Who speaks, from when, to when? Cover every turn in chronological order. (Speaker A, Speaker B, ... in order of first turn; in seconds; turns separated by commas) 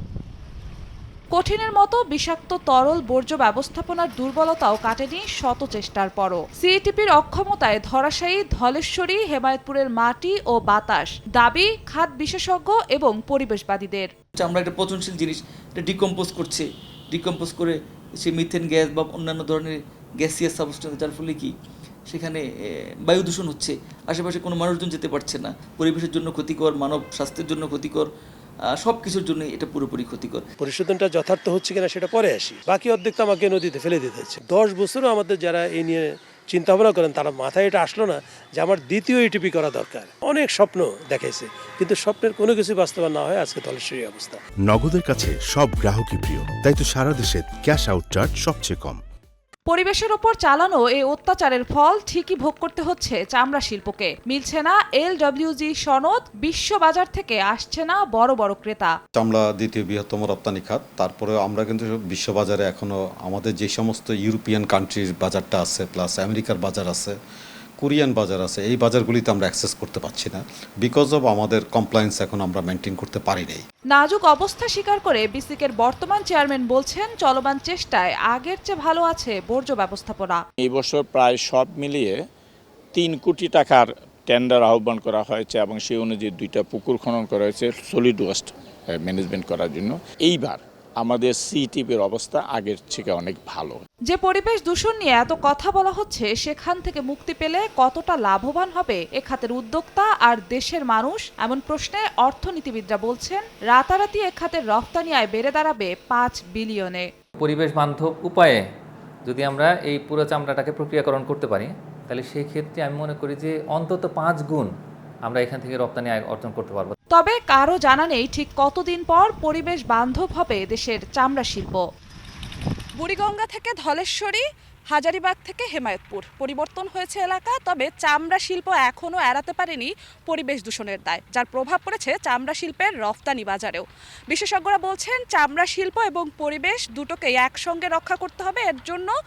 Speaker A: 1.4-14.1, Speaker B: 14.4-17.7, Speaker B: 18.2-19.7, Speaker B: 20.2-21.5, Speaker B: 22.1-22.4, Speaker B: 23.1-28.1, Speaker B: 28.9-30.4, Speaker C: 30.6-44.4, Speaker D: 44.7-49.0, Speaker A: 49.7-59.0, Speaker E: 59.2-67.2, Speaker E: 67.8-73.6, Speaker A: 73.9-80.4, Speaker F: 80.6-82.2, Speaker F: 83.0-93.8, Speaker A: 94.1-107.1, Speaker G: 107.4-108.6, Speaker G: 109.3-114.7, Speaker G: 115.3-117.0, Speaker A: 117.1-121.8, Speaker A: 123.0-139.1